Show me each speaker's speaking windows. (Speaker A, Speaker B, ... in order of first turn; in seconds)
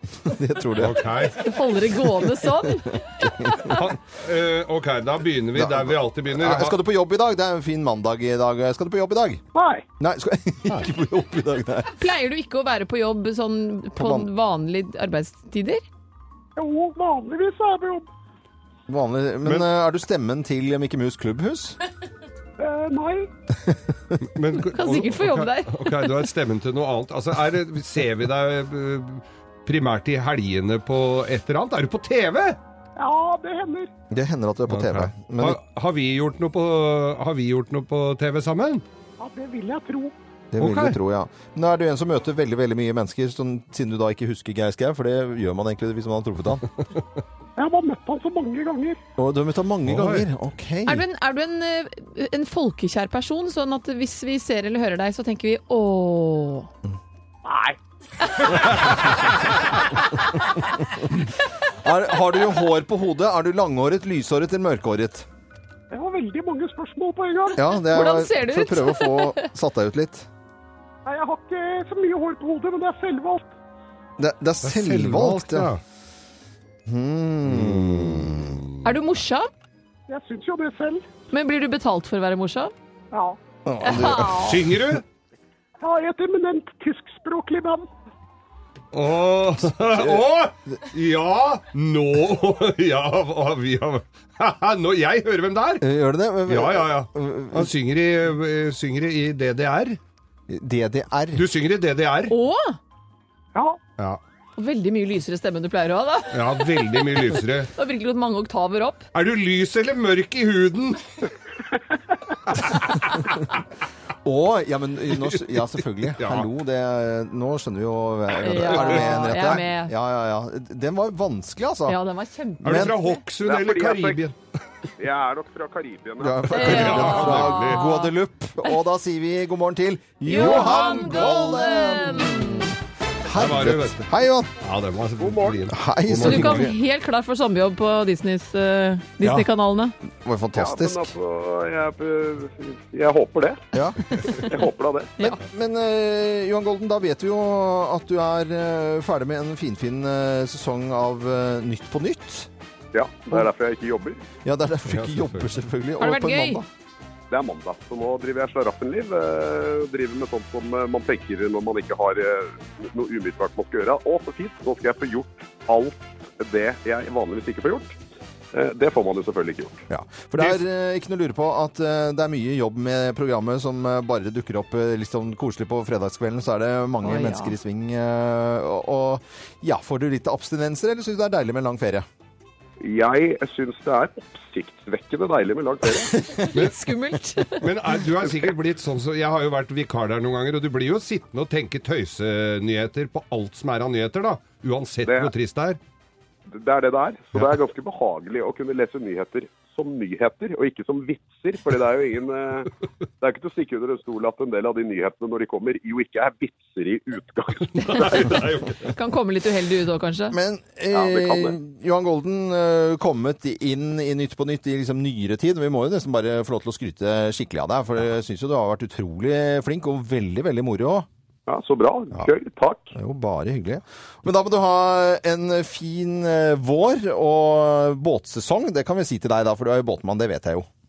Speaker A: 0.2-1.3, 5.5-9.4, 10.0-11.9, 13.9-14.3, 18.9-21.8, 34.1-35.6, 40.5-46.7, 49.2-51.0, 61.8-65.3, 67.5-70.3, 74.2-75.7, 76.8-78.6, 83.7-84.5, 95.8-97.7, 100.5-101.5, 114.2-122.0, 122.6-122.9, 126.2-132.7, 133.3-134.5, 135.7-136.7, 140.2-141.1, 143.7-144.0, 145.2-152.5, 154.4-156.7, 169.9-182.1, 210.3-221.1, 222.9-230.7
Speaker B: 0.7-1.4, 3.5-6.8, 24.2-32.6, 34.7-38.8, 40.6-41.0, 49.9-50.3, 74.6-75.8, 77.5-78.8, 84.4-85.0, 88.9-95.8, 96.5-100.0, 101.3-102.3, 106.3-107.7, 109.1-111.0, 112.5-113.4, 116.2-116.5, 118.7-119.4, 122.6-124.4, 126.6-127.9, 130.3-131.7, 133.3-134.1, 134.6-136.7, 154.9-155.4, 187.6-195.8, 207.7-208.9
Speaker C: 1.4-3.7, 11.9-15.8, 24.7-26.1, 50.9-56.7, 60.1-60.4, 67.7-69.5, 78.8-79.5, 81.3-82.7, 83.8-84.6, 102.3-102.8, 104.6-109.1, 118.4-119.9, 121.8-123.2, 126.5-128.1, 130.2-132.7, 136.2-139.9, 156.0-156.6, 177.0-177.6, 186.5-187.7, 207.9-208.2, 208.8-210.3
Speaker D: 9.5-9.8, 16.6-18.1, 22.6-23.3, 33.0-33.9, 39.2-40.1, 47.6-49.0, 65.9-67.6, 71.0-73.5, 80.1-81.0, 83.1-83.4, 85.8-87.9, 103.5-103.8
Speaker E: 123.4-124.2, 125.0-127.0, 135.2-135.6, 140.5-143.6, 144.4-145.1, 152.9-154.2, 157.3-168.0, 168.5-169.8, 182.8-186.1, 195.0-195.3, 196.5-208.3, 210.9-211.6, 221.5-222.9